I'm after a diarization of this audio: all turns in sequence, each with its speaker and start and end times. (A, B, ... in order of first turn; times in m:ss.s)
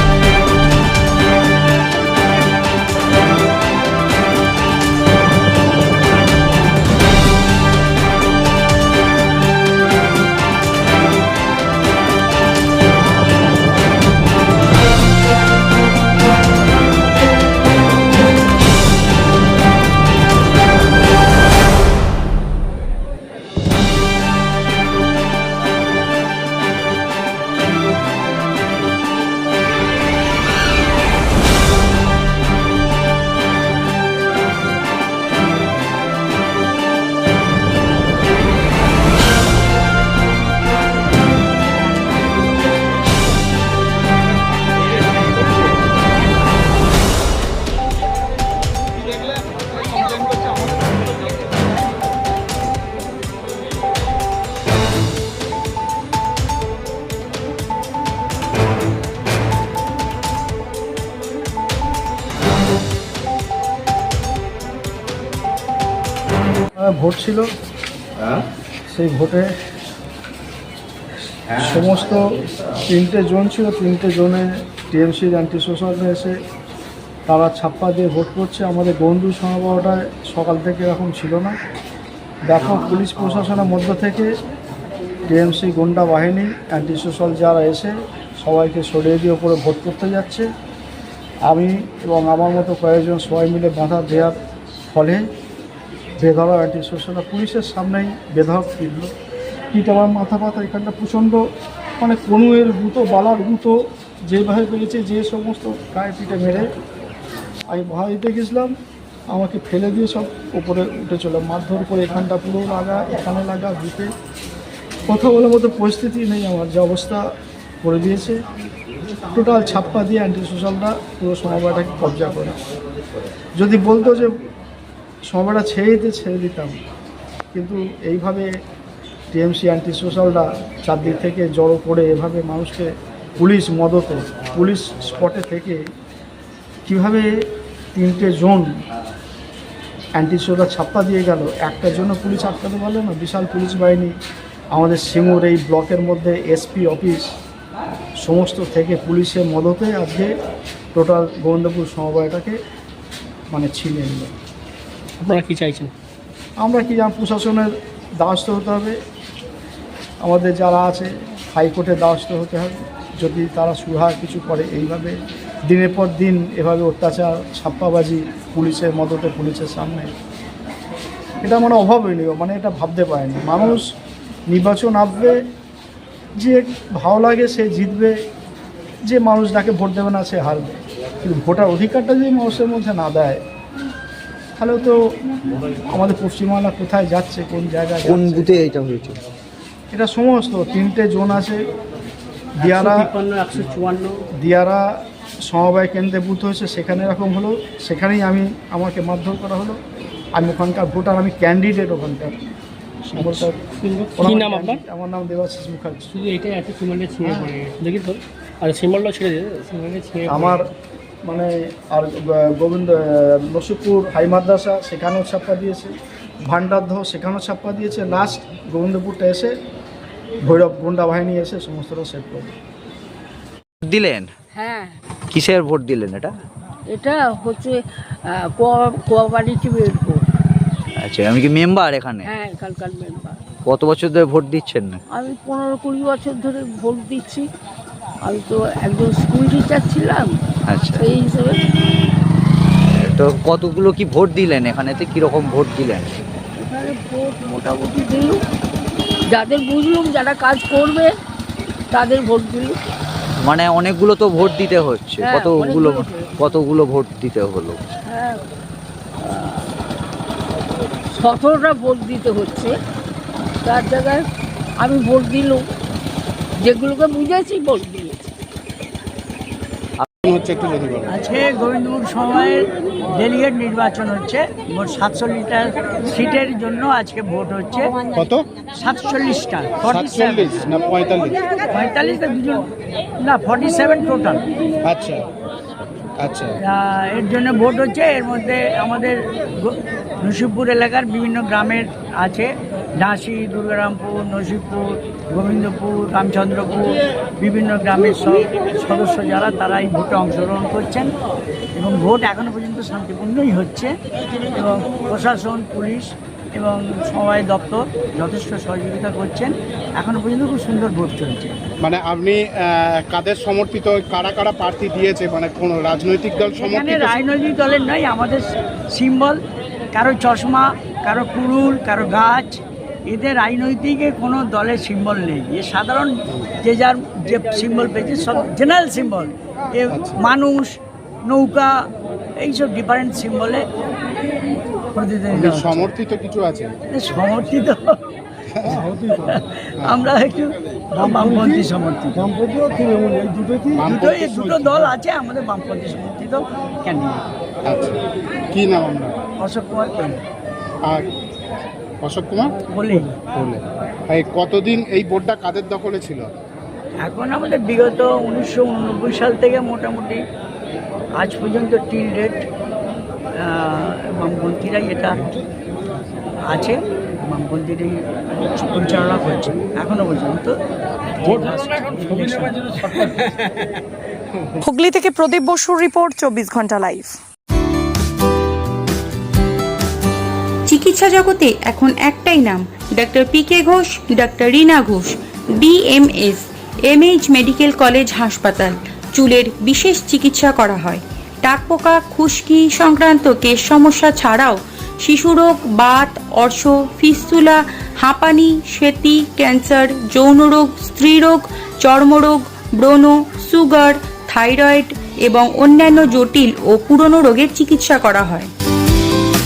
1:06.8-1:07.5 A
1:08.9-1:09.5 A
1:11.5-1:16.4 A
1:17.3-1:21.6 A
1:22.4-1:24.3 A
1:25.3-1:30.5 A
1:31.4-1:34.4 A
1:34.9-1:35.2 A
1:36.2-1:39.1 A
1:39.7-1:41.4 A
1:42.0-1:46.7 A
1:47.7-1:48.7 A
1:49.3-1:54.1 A
1:55.1-1:57.3 A
1:57.8-1:58.4 A
1:59.3-2:02.6 A
2:03.5-2:04.4 A
2:05.3-2:06.8 A
2:07.5-2:08.5 A
2:09.3-2:15.8 A
2:16.8-2:18.7 A
2:20.2-2:24.2 A
2:24.7-2:27.3 A
2:28.2-2:30.3 A
2:30.9-2:32.6 A
2:33.5-2:34.3 A
2:35.2-2:35.9 B
2:36.6-2:39.0 A
2:40.2-2:50.1 A
2:51.4-2:53.9 A
2:54.5-2:55.4 A
2:56.4-2:58.2 A
2:59.0-3:03.4 A
3:04.6-3:05.0 A
3:05.9-3:08.6 A
3:08.0-3:09.2 C
3:09.9-3:11.6 A
3:12.6-3:13.1 A
3:12.6-3:14.2 B
3:14.4-3:19.8 A
3:20.3-3:22.4 A
3:23.0-3:23.6 A
3:23.2-3:24.8 B
3:24.2-3:26.1 A
3:26.1-3:30.7 B
3:30.3-3:30.7 A
3:31.2-3:39.6 A
3:40.4-3:42.5 A
3:43.8-3:44.3 C
3:44.5-3:45.0 D
3:45.3-3:46.3 C
3:46.9-3:50.2 D
3:51.0-3:52.3 C
3:52.2-3:53.4 D
3:53.6-3:55.0 C
3:55.1-3:57.5 D
3:58.2-4:00.4 D
4:00.7-4:01.0 C
4:00.9-4:01.6 D
4:03.0-4:06.1 C
4:06.6-4:08.4 D
4:09.3-4:11.1 D
4:11.9-4:12.8 D
4:13.4-4:17.8 C
4:15.2-4:16.4 D
4:18.1-4:18.4 D
4:19.2-4:19.7 D
4:21.1-4:22.8 D
4:23.6-4:24.2 D
4:24.8-4:25.7 D
4:26.6-4:28.2 D
4:30.2-4:31.1 E
4:31.1-4:37.9 F
4:38.1-4:38.5 E
4:38.8-4:40.7 F
4:39.9-4:41.4 E
4:41.6-4:42.7 F
4:43.2-4:44.4 F
4:44.8-4:45.2 E
4:46.2-4:46.6 E
4:46.7-4:52.5 F
4:53.0-5:01.1 F
5:01.7-5:03.9 F
5:04.5-5:11.5 F
5:11.8-5:17.2 E
5:16.6-5:19.4 F
5:19.9-5:31.7 F
5:32.4-5:33.6 F
5:35.0-5:35.9 F
5:35.3-5:36.7 E
5:36.9-5:38.0 F
5:38.7-5:42.3 F
5:42.6-5:43.7 A
5:43.7-5:44.8 E
5:43.8-5:47.2 F
5:47.6-5:48.0 E
5:48.5-5:49.2 E
5:49.4-5:50.2 F
5:52.0-5:52.6 E
5:52.7-5:53.2 F
5:53.2-5:56.3 E
5:57.0-6:00.2 F
6:01.2-6:02.5 F
6:03.4-6:05.2 F
6:06.5-6:10.5 F
6:11.2-6:13.1 F
6:11.5-6:12.9 B
6:14.6-6:17.2 G
6:20.7-6:48.5 H